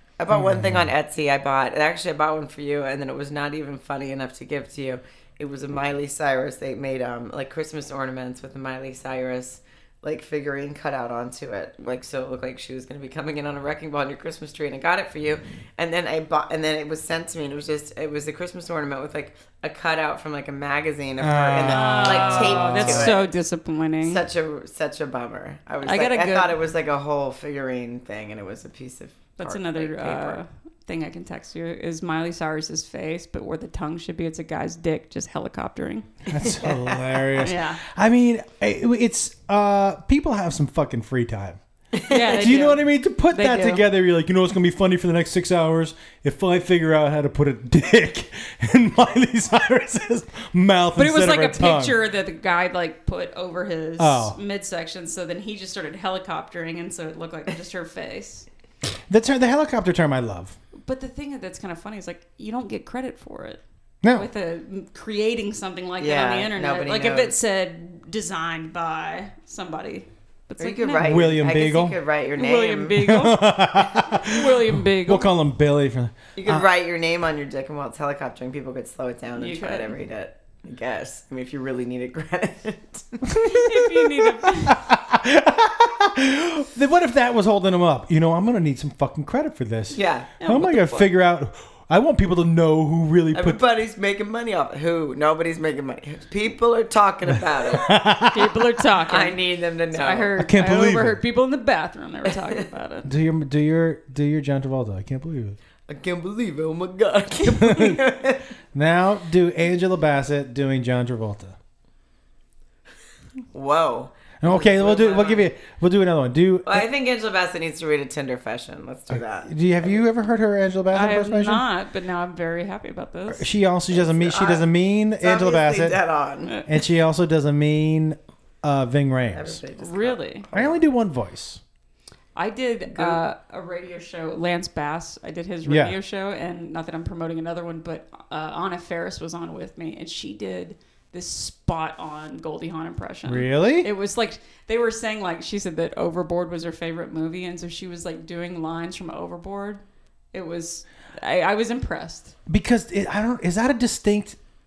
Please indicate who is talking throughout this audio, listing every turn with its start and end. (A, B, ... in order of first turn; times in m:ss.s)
0:00.2-0:23.3 A
0:00.3-0:00.9 B
0:21.2-0:23.2 B
0:21.7-0:24.2 C
0:24.0-0:30.4 A
0:25.8-0:26.5 C
0:29.4-0:36.1 C
0:36.3-0:41.6 B
0:36.6-0:37.1 A
0:37.4-0:37.8 C
0:42.0-0:42.3 A
0:42.1-0:43.8 C
0:42.1-0:52.0 B
0:51.0-0:58.5 C
0:54.0-0:54.4 B
0:59.1-1:00.6 B
1:00.9-1:11.1 C
1:04.0-1:04.3 B
1:06.0-1:07.4 A
1:10.6-1:13.1 A
1:11.0-1:12.0 B
1:12.4-1:15.3 C
1:13.0-1:16.7 B
1:16.4-1:23.2 A
1:19.4-1:19.9 C
1:23.3-1:33.6 B
1:23.4-1:24.8 C
1:29.9-1:30.3 A
1:30.4-1:31.1 C
1:33.3-1:37.9 A
1:37.7-1:38.6 B
1:38.3-1:39.4 C
1:39.1-1:40.4 A
1:39.9-1:43.1 C
1:40.4-1:41.2 B
1:43.0-1:45.6 B
1:45.9-1:48.4 A
1:47.4-1:48.0 B
1:48.7-1:51.6 B
1:53.5-1:55.5 A
1:54.4-1:56.9 B
1:56.7-2:00.0 A
1:59.1-2:01.6 B
2:00.9-2:03.5 C
2:03.3-2:06.0 B
2:03.9-2:04.7 A
2:05.2-2:06.6 A
2:06.5-2:06.7 C
2:06.7-2:09.6 B
2:09.3-2:10.8 A
2:09.8-2:10.5 C
2:10.5-2:11.6 B
2:12.4-2:29.8 C
2:12.9-2:13.2 A
2:15.7-2:16.0 B
2:23.3-2:23.9 B
2:30.3-2:32.4 C
2:32.5-2:34.4 B